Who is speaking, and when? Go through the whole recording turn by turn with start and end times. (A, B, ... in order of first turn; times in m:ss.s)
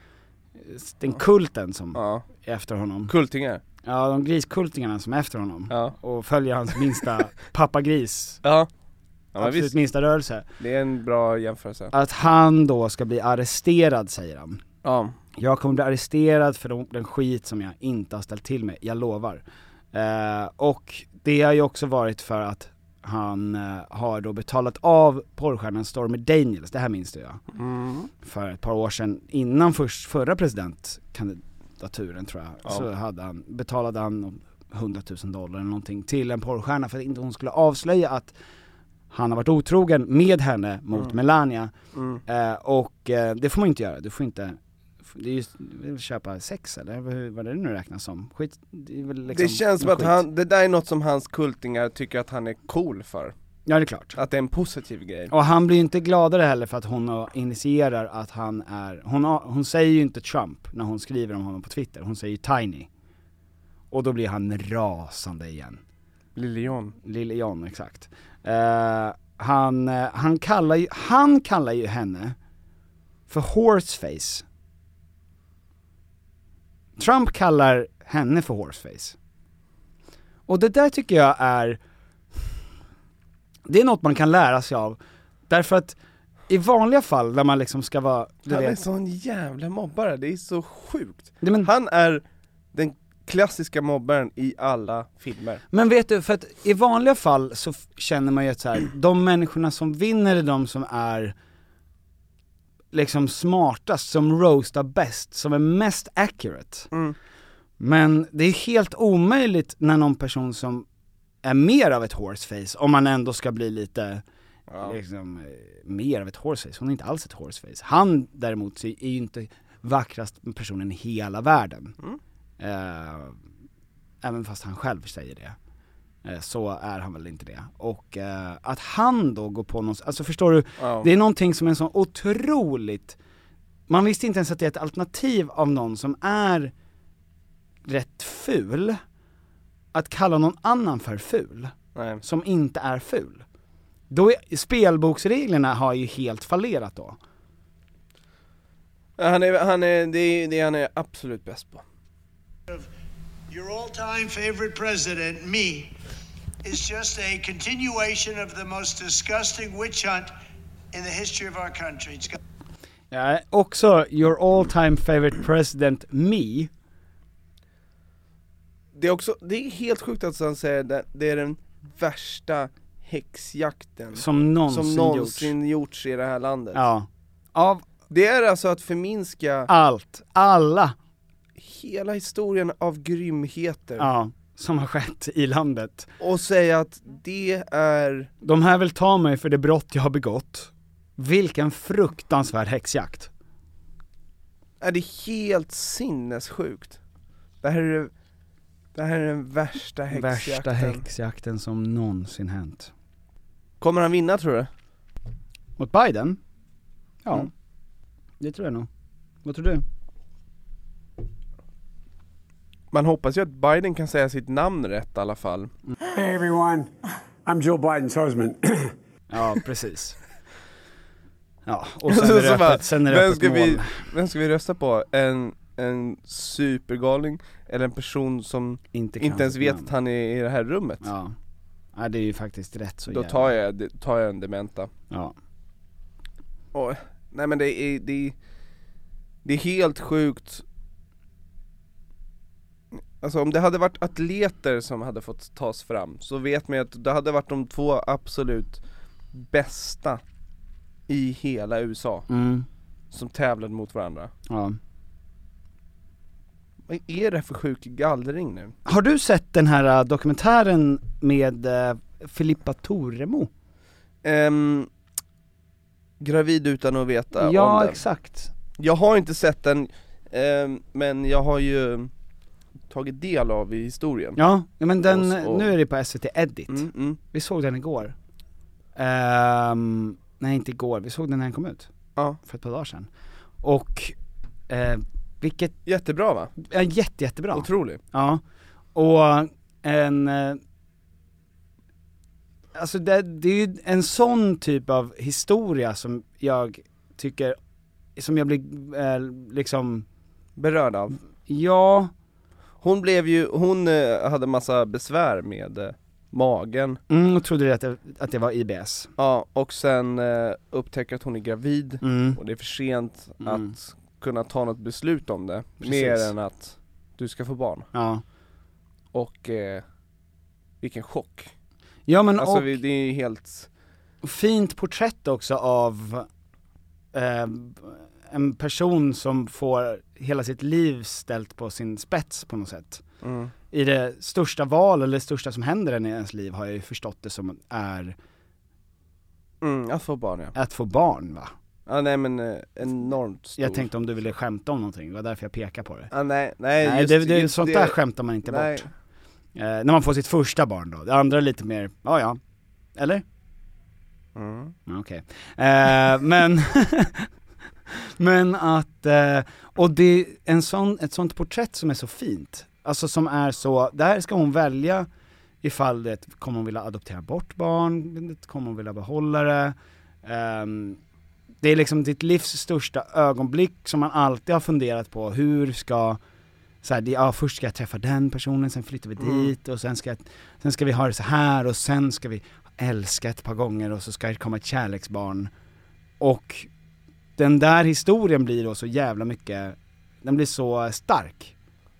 0:00.6-0:03.1 A
0:01.9-0:02.2 B
0:03.1-0:03.6 B
0:03.8-0:08.4 A
0:05.7-0:05.9 B
0:08.4-0:08.7 B
0:09.3-0:09.7 B
0:09.4-0:10.4 A
0:10.6-0:11.9 B
0:11.9-0:14.6 A
0:14.8-0:15.1 B
0:15.4-0:27.4 A
0:27.5-0:28.1 B
0:28.2-0:38.3 A
0:39.1-0:41.7 A
0:41.9-0:42.2 B
0:42.2-0:50.2 A
0:49.3-0:53.3 B
0:53.7-0:54.2 A
0:54.2-0:55.3 B
0:55.3-1:02.9 A
1:03.9-1:05.8 A
1:06.4-1:06.9 B
1:07.0-1:12.4 A
1:13.3-1:14.4 A
1:17.0-1:19.2 A
1:20.5-1:21.8 A
1:23.6-1:25.0 A
1:25.5-1:26.0 A
1:26.5-1:28.8 A
1:28.5-1:32.2 B
1:31.4-1:31.7 A
1:32.7-1:35.6 B
1:35.7-1:41.3 A
1:42.9-1:46.9 A
1:47.8-1:50.8 A
1:51.4-1:54.2 A
1:54.7-1:55.0 B
1:54.8-2:02.0 A
2:02.6-2:03.4 A
2:04.2-2:05.6 A
2:06.2-2:13.2 A
2:10.8-2:11.1 B
2:13.9-2:16.7 A
2:17.8-2:19.0 A
2:19.9-2:23.4 A
2:21.9-2:22.2 B
2:24.1-2:27.2 A
2:29.2-2:31.8 B
2:33.5-2:35.9 C
2:36.6-2:40.3 C
2:40.9-2:42.4 C
2:43.1-2:46.7 A
2:49.0-2:56.8 B
2:54.1-2:55.5 A
2:56.7-2:57.8 A
2:58.1-2:59.7 B
2:59.7-3:00.9 A
3:01.6-3:04.1 B
3:04.0-3:06.1 A
3:06.2-3:08.3 B
3:08.4-3:13.3 A
3:14.8-3:17.0 B
3:17.6-3:18.1 B
3:18.9-3:21.0 B
3:20.1-3:22.9 A
3:23.8-3:24.7 B
3:25.8-3:26.4 A
3:27.2-3:27.5 A
3:28.4-3:28.9 A
3:29.4-3:29.8 A
3:32.9-3:35.7 B
3:36.0-3:36.9 D
3:37.4-3:38.9 D
3:39.3-3:40.2 A
3:41.6-3:43.9 A
3:42.1-3:51.1 B
3:48.9-3:49.9 A
3:51.0-3:51.3 A
3:51.9-3:53.5 A
3:53.1-3:54.9 B
3:56.7-3:58.3 B
3:59.4-4:00.6 B
4:03.2-4:08.8 B
4:09.3-4:10.2 B
4:11.1-4:12.3 B
4:12.3-4:12.7 A
4:13.1-4:14.3 B
4:14.5-4:14.8 A
4:16.9-4:18.7 B
4:18.8-4:23.5 A
4:24.2-4:24.9 B
4:26.2-4:28.0 B
4:27.4-4:28.5 A
4:28.8-4:32.1 B
4:32.9-4:34.4 B
4:34.4-4:38.1 A
4:35.1-4:35.7 B
4:36.7-4:37.2 B
4:38.9-4:41.9 A
4:42.4-4:43.1 A
4:43.6-4:44.2 A
4:44.7-4:45.8 A
4:45.8-4:46.5 B
4:46.6-4:48.4 A
4:47.5-4:48.0 B
4:48.9-4:50.6 A
4:52.7-4:57.6 A
4:58.2-5:00.0 A
5:00.6-5:01.2 B
5:01.5-5:02.1 A
5:02.8-5:07.0 B
5:07.1-5:09.1 A
5:09.2-5:17.9 B
5:12.0-5:12.4 A
5:13.4-5:13.7 A
5:15.8-5:16.3 A
5:17.9-5:18.2 A
5:19.1-5:19.8 B
5:20.8-5:21.5 B
5:22.1-5:22.7 A
5:22.4-5:23.7 B
5:24.2-5:26.2 A
5:27.1-5:33.0 A
5:33.2-5:33.5 B
5:33.7-5:38.2 A
5:39.6-5:40.5 B
5:40.5-5:41.5 A
5:41.9-5:43.9 B
5:43.6-5:46.1 A
5:46.1-5:48.9 B
5:46.8-5:48.9 A
5:49.5-5:52.4 A
5:53.0-5:53.2 A
5:54.3-5:54.7 B
5:54.9-5:57.3 A
5:57.9-6:05.1 A
6:05.6-6:11.0 A
6:11.6-6:16.2 A
6:16.8-6:25.5 A
6:19.2-6:19.5 B
6:26.2-6:26.7 A
6:27.4-6:31.5 A